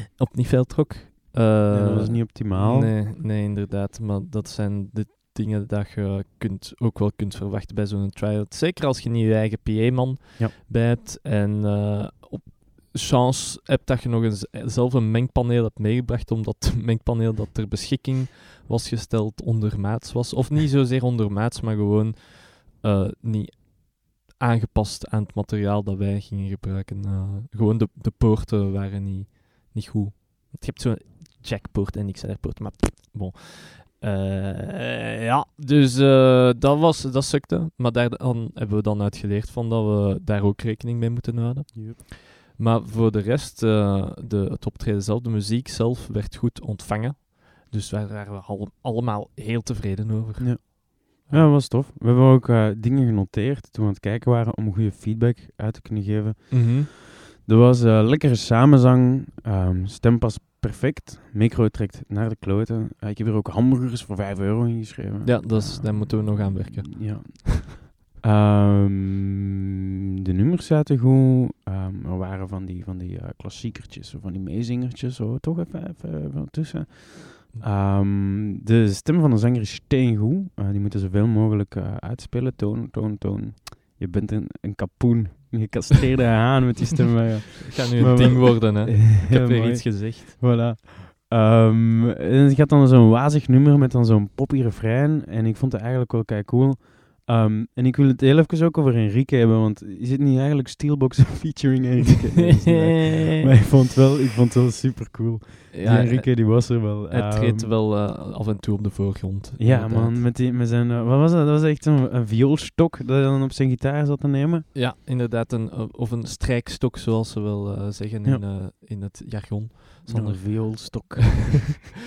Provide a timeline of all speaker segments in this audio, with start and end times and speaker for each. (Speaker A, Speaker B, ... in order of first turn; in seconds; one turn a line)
Speaker A: 0.2-51.5
Speaker B: 1.7-3.0
Speaker B: 41.7-42.0
Speaker B: 50.4-69.4
Speaker A: 56.5-56.9
Speaker A: 65.2-67.5
Speaker B: 70.3-107.7
Speaker A: 87.6-90.4
Speaker A: 102.8-103.2
Speaker A: 105.7-110.2
Speaker B: 109.6-114.7
Speaker A: 114.7-121.9
Speaker B: 120.1-121.8